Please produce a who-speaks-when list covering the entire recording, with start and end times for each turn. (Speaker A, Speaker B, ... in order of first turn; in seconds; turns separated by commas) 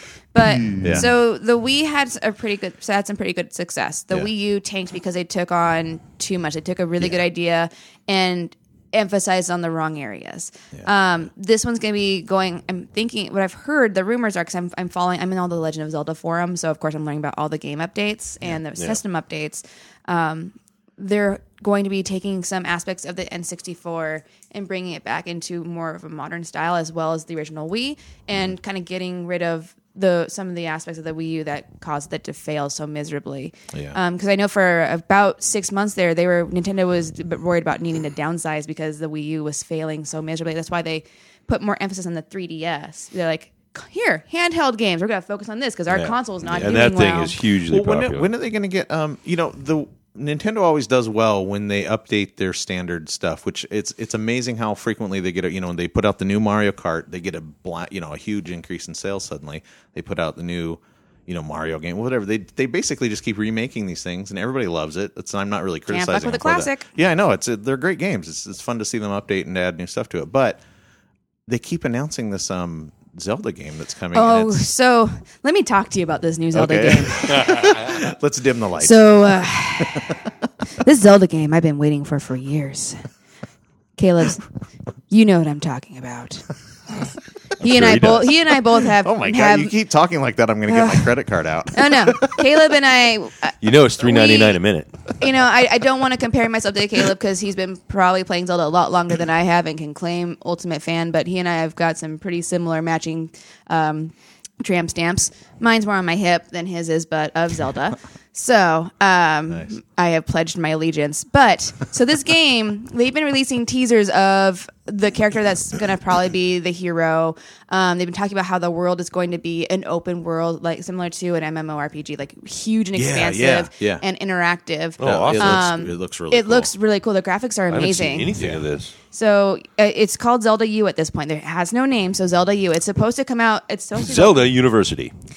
Speaker A: 0.3-47.4, Speaker B: 0.4-1.1, Speaker C: 0.8-1.1, Speaker B: 45.9-48.3, Speaker C: 47.7-70.6, Speaker A: 65.9-66.9, Speaker C: 71.5-74.6, Speaker A: 74.1-77.8, Speaker C: 76.5-79.2, Speaker A: 78.8-80.2, Speaker C: 79.8-80.1, Speaker A: 80.8-83.0, Speaker A: 84.0-84.4, Speaker A: 85.1-86.5, Speaker A: 87.6-89.7, Speaker B: 87.6-88.3, Speaker C: 89.0-92.4, Speaker A: 90.7-91.2, Speaker A: 91.7-94.6, Speaker B: 93.6-94.9, Speaker A: 95.2-128.4, Speaker C: 123.0-124.0, Speaker B: 125.0-125.7, Speaker C: 125.0-126.7, Speaker B: 127.7-128.9, Speaker C: 128.4-128.6, Speaker A: 129.1-134.5, Speaker B: 134.0-135.1